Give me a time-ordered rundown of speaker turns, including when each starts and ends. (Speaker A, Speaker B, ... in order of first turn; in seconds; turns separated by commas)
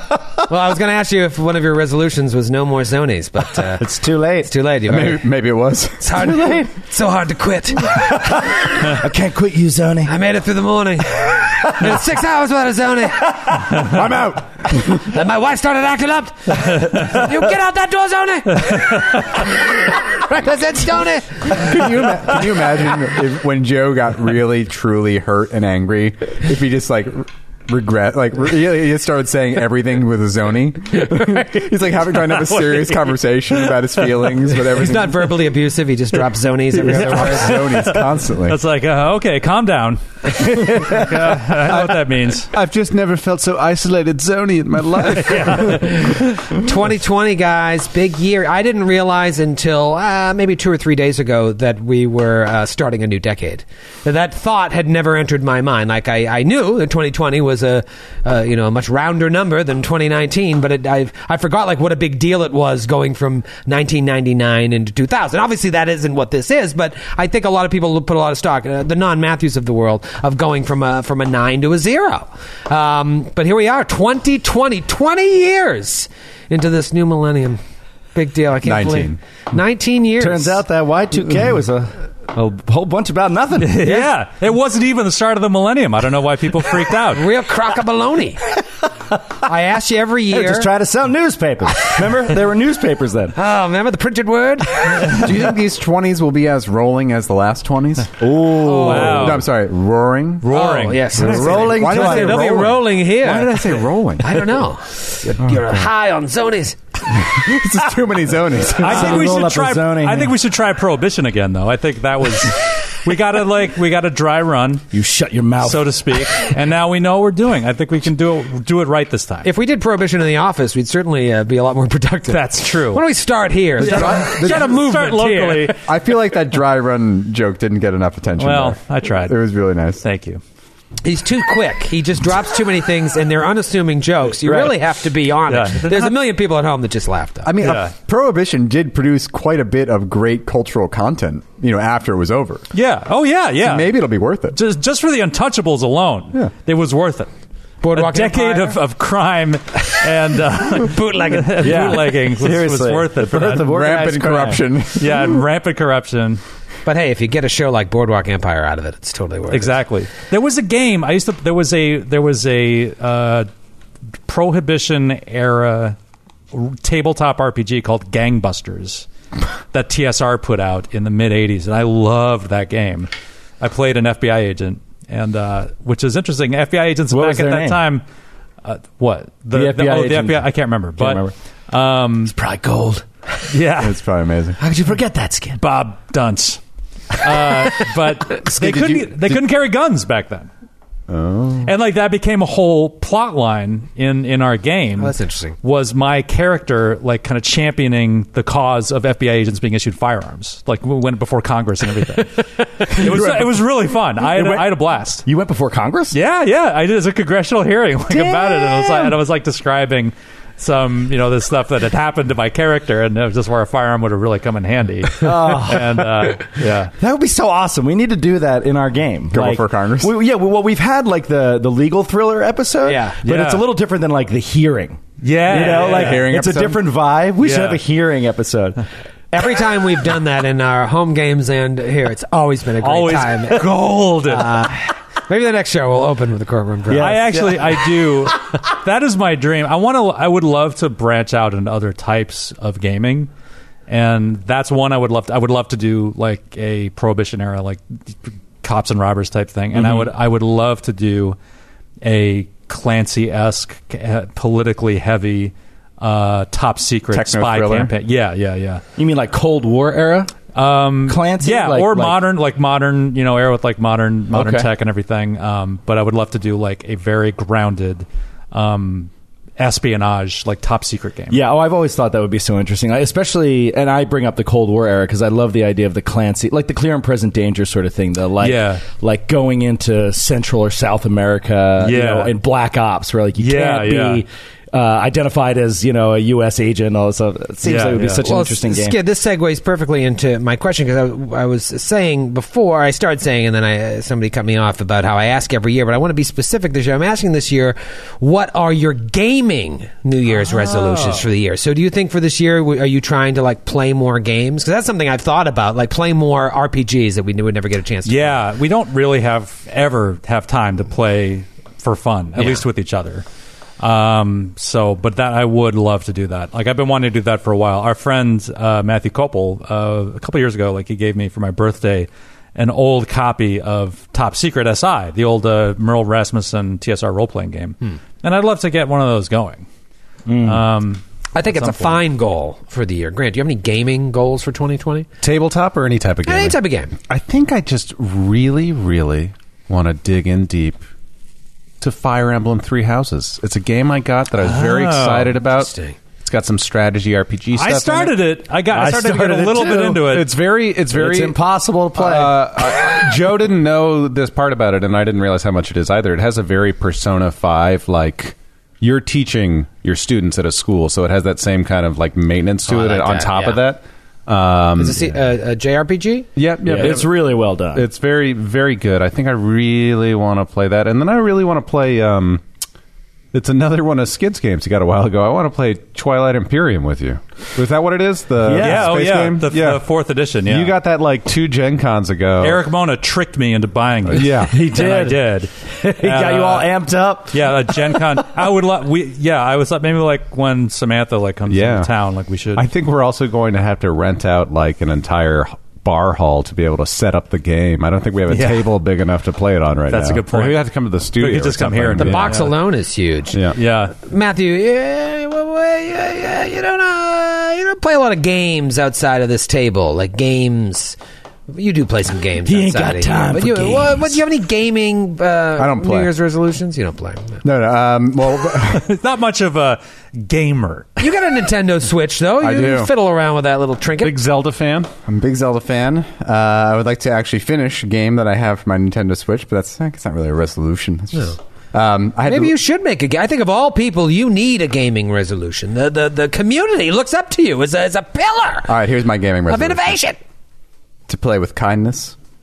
Speaker A: 0.5-3.9, Speaker B: 3.8-4.5, Speaker A: 4.4-5.2, Speaker C: 4.9-6.1, Speaker A: 6.0-8.3, Speaker B: 6.2-6.7, Speaker B: 8.5-10.1, Speaker A: 10.1-13.9, Speaker C: 13.7-15.1, Speaker A: 14.8-21.9, Speaker C: 21.5-35.3, Speaker A: 31.1-31.4, Speaker D: 32.4-33.1, Speaker A: 34.6-37.7, Speaker C: 36.7-38.6, Speaker D: 37.1-42.5, Speaker B: 40.4-41.3, Speaker E: 41.6-45.9, Speaker D: 45.3-45.8, Speaker A: 45.6-77.6, Speaker A: 78.2-80.6, Speaker C: 78.6-79.2, Speaker B: 80.2-84.0, Speaker D: 83.6-87.3, Speaker A: 83.8-84.1, Speaker A: 87.1-88.4, Speaker A: 89.4-90.7, Speaker B: 90.3-93.4, Speaker A: 93.4-95.3, Speaker C: 95.1-98.2, Speaker B: 98.2-99.4, Speaker A: 98.6-99.3, Speaker D: 98.8-99.5, Speaker C: 98.8-100.5, Speaker D: 100.4-101.2, Speaker A: 100.5-107.1, Speaker C: 101.2-104.6, Speaker B: 101.2-102.8, Speaker C: 107.1-109.3, Speaker D: 108.8-114.9, Speaker B: 108.8-110.3, Speaker B: 114.9-116.3, Speaker D: 115.6-119.5, Speaker A: 119.4-125.8, Speaker D: 122.3-123.0, Speaker D: 123.8-125.8, Speaker C: 123.8-124.8, Speaker C: 125.8-130.0, Speaker D: 128.4-130.4, Speaker A: 131.0-137.6, Speaker B: 134.4-134.8, Speaker D: 135.5-136.2, Speaker C: 137.4-142.7, Speaker D: 137.6-137.9, Speaker D: 142.7-144.0, Speaker C: 143.6-144.6, Speaker D: 144.5-147.3, Speaker A: 147.8-148.8, Speaker D: 147.9-153.7, Speaker A: 150.8-152.0, Speaker B: 151.6-154.6, Speaker C: 153.7-155.4, Speaker D: 155.0-156.4, Speaker A: 156.9-159.8, Speaker D: 159.5-163.5, Speaker D: 164.3-166.0, Speaker D: 166.5-169.1, Speaker D: 169.7-173.1, Speaker D: 173.6-178.0, Speaker B: 177.1-177.8, Speaker D: 178.6-182.3, Speaker B: 179.5-180.5, Speaker B: 181.0-181.3, Speaker B: 182.3-183.1, Speaker D: 183.5-184.0, Speaker C: 183.7-184.6, Speaker B: 184.6-185.6, Speaker D: 185.6-186.6, Speaker D: 187.2-190.5, Speaker B: 187.4-187.9, Speaker C: 188.5-189.4, Speaker C: 191.1-191.7, Speaker D: 191.7-205.2, Speaker A: 195.0-195.6, Speaker B: 202.9-203.5, Speaker B: 204.2-204.7, Speaker B: 205.2-206.2, Speaker D: 206.1-216.9, Speaker B: 208.1-209.2, Speaker B: 215.2-216.4, Speaker B: 217.0-228.8, Speaker C: 219.3-220.2, Speaker A: 222.8-223.2, Speaker D: 223.2-223.6, Speaker D: 225.2-226.3, Speaker C: 225.5-226.8, Speaker D: 227.4-227.8, Speaker A: 229.3-233.7, Speaker D: 232.8-234.6, Speaker A: 234.3-237.5, Speaker B: 236.9-237.6, Speaker D: 237.0-243.3, Speaker D: 243.9-247.8, Speaker D: 248.6-251.4, Speaker D: 252.0-258.8, Speaker C: 257.1-257.9, Speaker B: 259.0-260.3, Speaker D: 260.6-271.4, Speaker B: 261.1-262.2, Speaker B: 264.3-264.7, Speaker B: 271.3-289.0, Speaker D: 278.4-278.8, Speaker D: 281.8-282.4, Speaker D: 283.4-284.2, Speaker D: 287.6-288.3, Speaker A: 288.2-308.4, Speaker D: 300.4-301.3, Speaker D: 308.1-313.2, Speaker A: 312.4-312.6, Speaker D: 313.8-329.7, Speaker B: 330.3-330.6, Speaker D: 330.4-332.0, Speaker A: 331.4-335.1, Speaker E: 335.2-340.8, Speaker A: 336.3-337.0, Speaker E: 341.8-348.2, Speaker D: 344.4-345.4, Speaker A: 345.5-346.0, Speaker D: 347.5-350.3, Speaker B: 348.7-350.1, Speaker E: 349.9-351.4, Speaker B: 350.9-352.9, Speaker E: 351.9-365.1, Speaker A: 362.7-363.6, Speaker A: 364.8-366.3, Speaker E: 366.4-372.4, Speaker B: 366.6-367.9, Speaker E: 373.3-379.9, Speaker B: 378.4-378.9, Speaker D: 378.6-380.8, Speaker E: 380.4-382.6, Speaker D: 382.4-386.7, Speaker E: 384.1-384.6, Speaker B: 384.1-388.2, Speaker D: 387.3-392.6, Speaker E: 391.5-391.9, Speaker E: 392.6-402.5, Speaker D: 398.3-398.7, Speaker D: 399.9-402.6, Speaker A: 402.0-411.0, Speaker E: 403.3-403.6, Speaker D: 403.6-403.9, Speaker A: 411.5-417.4, Speaker B: 412.4-414.2, Speaker C: 415.6-416.1, Speaker C: 417.4-418.9, Speaker D: 418.7-421.0, Speaker A: 421.0-424.2, Speaker C: 422.4-422.9, Speaker E: 424.0-424.9, Speaker C: 425.1-432.6, Speaker A: 432.2-438.8, Speaker C: 438.7-439.9, Speaker A: 439.5-440.2, Speaker C: 441.1-442.2